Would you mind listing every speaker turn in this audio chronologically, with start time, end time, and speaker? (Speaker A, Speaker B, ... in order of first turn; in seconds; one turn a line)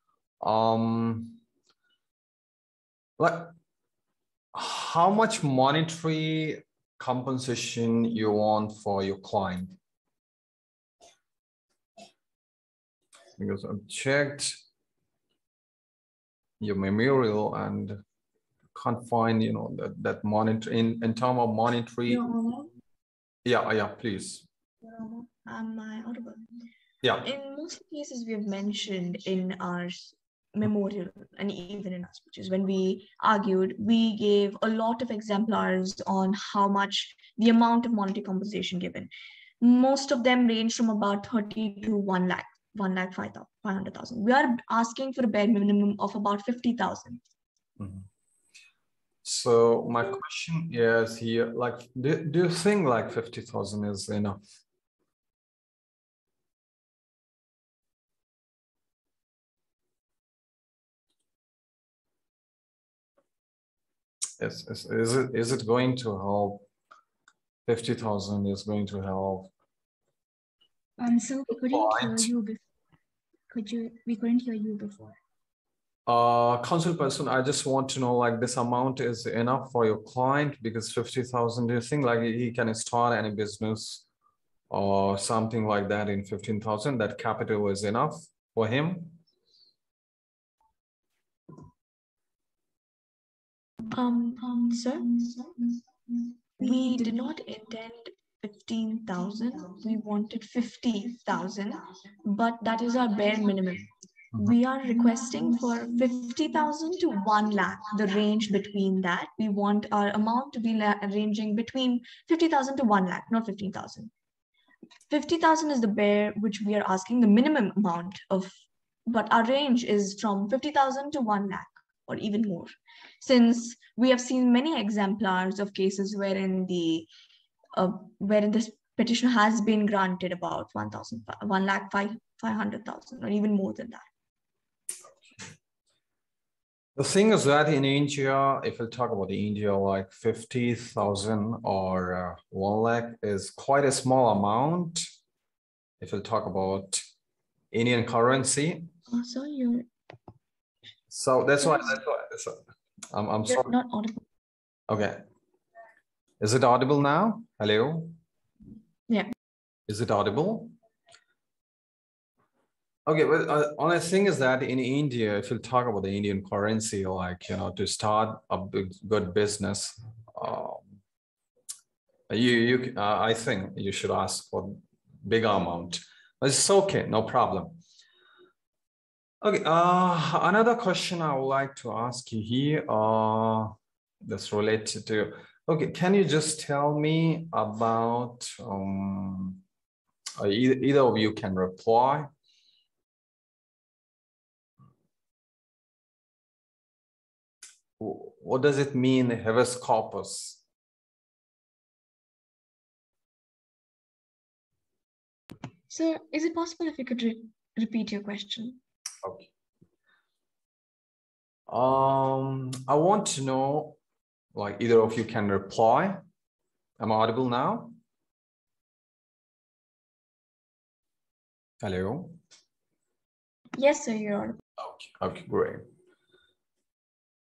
Speaker A: 0.4-1.4
Speaker A: 3.2-3.5
Speaker A: 4.5-9.8
Speaker A: 13.4-14.6
Speaker A: 16.6-18.0
Speaker A: 18.7-22.2
Speaker B: 22.1-22.7
Speaker A: 23.4-24.4
Speaker B: 24.8-26.4
Speaker A: 27.0-27.3
Speaker B: 27.2-47.2
Speaker A: 47.8-48.1
Speaker A: 49.2-54.4
Speaker A: 64.4-66.7
Speaker A: 67.7-69.5
Speaker C: 71.0-72.6
Speaker A: 71.7-72.3
Speaker C: 73.5-75.2
Speaker A: 76.1-84.0
Speaker A: 84.7-89.2
Speaker B: 93.9-95.5
Speaker B: 96.6-114.1
Speaker B: 115.1-118.5
Speaker B: 119.0-127.1
Speaker B: 127.7-134.1
Speaker A: 136.9-145.1
Speaker A: 146.0-147.0
Speaker A: 147.7-148.9
Speaker B: 149.1-149.9
Speaker A: 151.1-152.6
Speaker B: 151.6-151.9
Speaker A: 153.1-153.7
Speaker B: 153.5-154.2
Speaker A: 154.9-155.2
Speaker A: 156.4-158.2
Speaker A: 159.9-160.7
Speaker A: 163.1-170.9
Speaker A: 172.3-177.8
Speaker A: 179.4-189.6
Speaker A: 190.4-192.3
Speaker A: 198.0-200.6
Speaker B: 205.9-208.8
Speaker A: 209.2-209.5
Speaker A: 211.7-214.0
Speaker A: 214.5-216.2
Speaker A: 217.0-217.9
Speaker A: 221.8-222.4
Speaker B: 223.8-224.6
Speaker A: 224.8-225.8